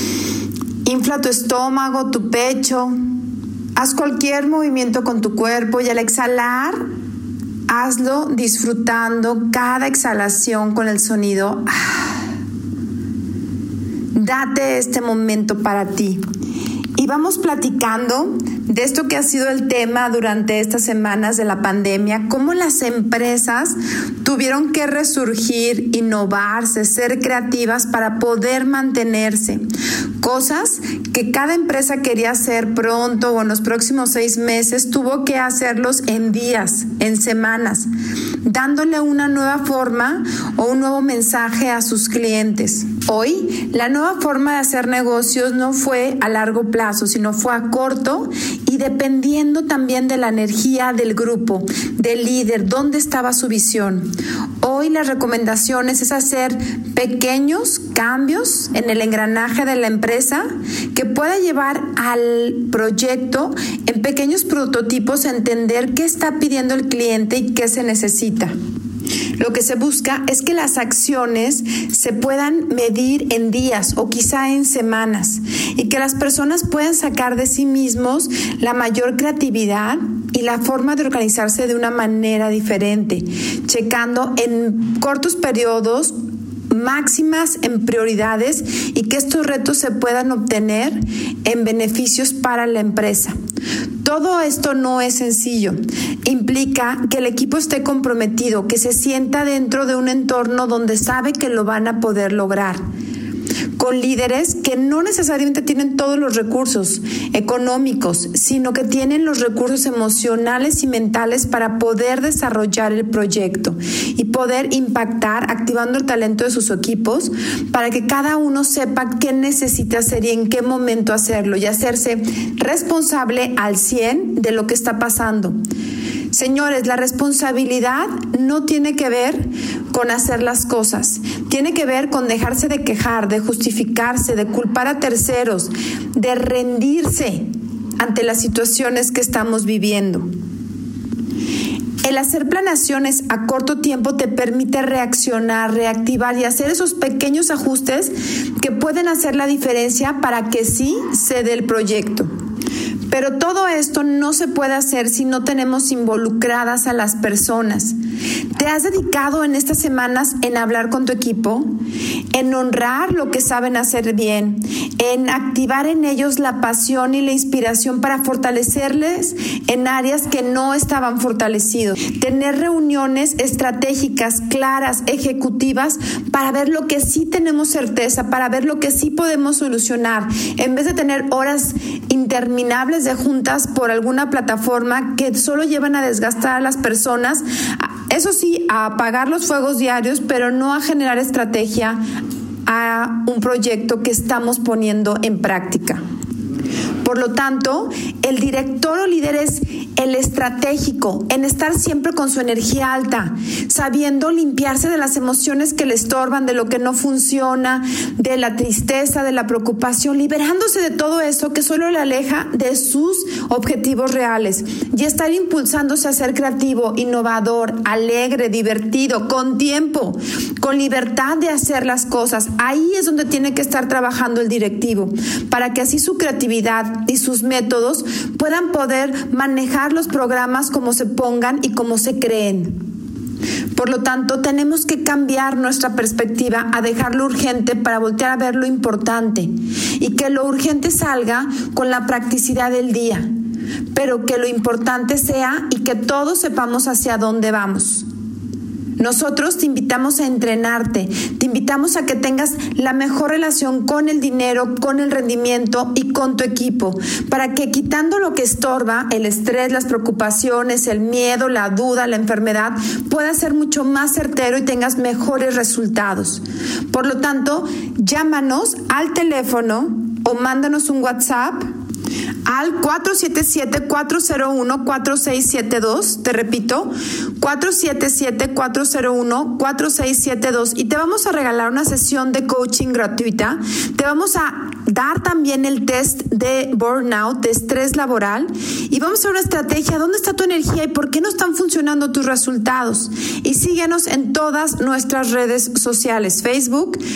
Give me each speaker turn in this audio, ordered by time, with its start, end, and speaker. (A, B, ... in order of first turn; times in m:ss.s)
0:00.8-0:02.9 A
0:03.8-0:06.8 A
0:07.7-0:12.2 A
0:14.1-0:16.2 A
0:17.0-0:29.6 A
0:30.2-0:37.9 A
0:38.4-0:54.1 A
0:54.6-1:08.5 A
1:09.4-1:26.1 A
1:26.7-1:33.3 A
1:34.0-1:42.8 A
1:43.8-2:05.5 A
2:06.3-2:17.5 A
2:18.0-2:20.2 A
2:22.0-2:32.3 A
2:33.1-2:37.9 A
2:38.6-2:41.7 A
2:42.3-3:12.0 A
3:12.6-3:16.0 A
3:17.0-3:52.8 A
3:53.8-4:03.3 A
4:03.9-4:08.0 A
4:09.0-4:31.6 A
4:32.4-4:57.0 A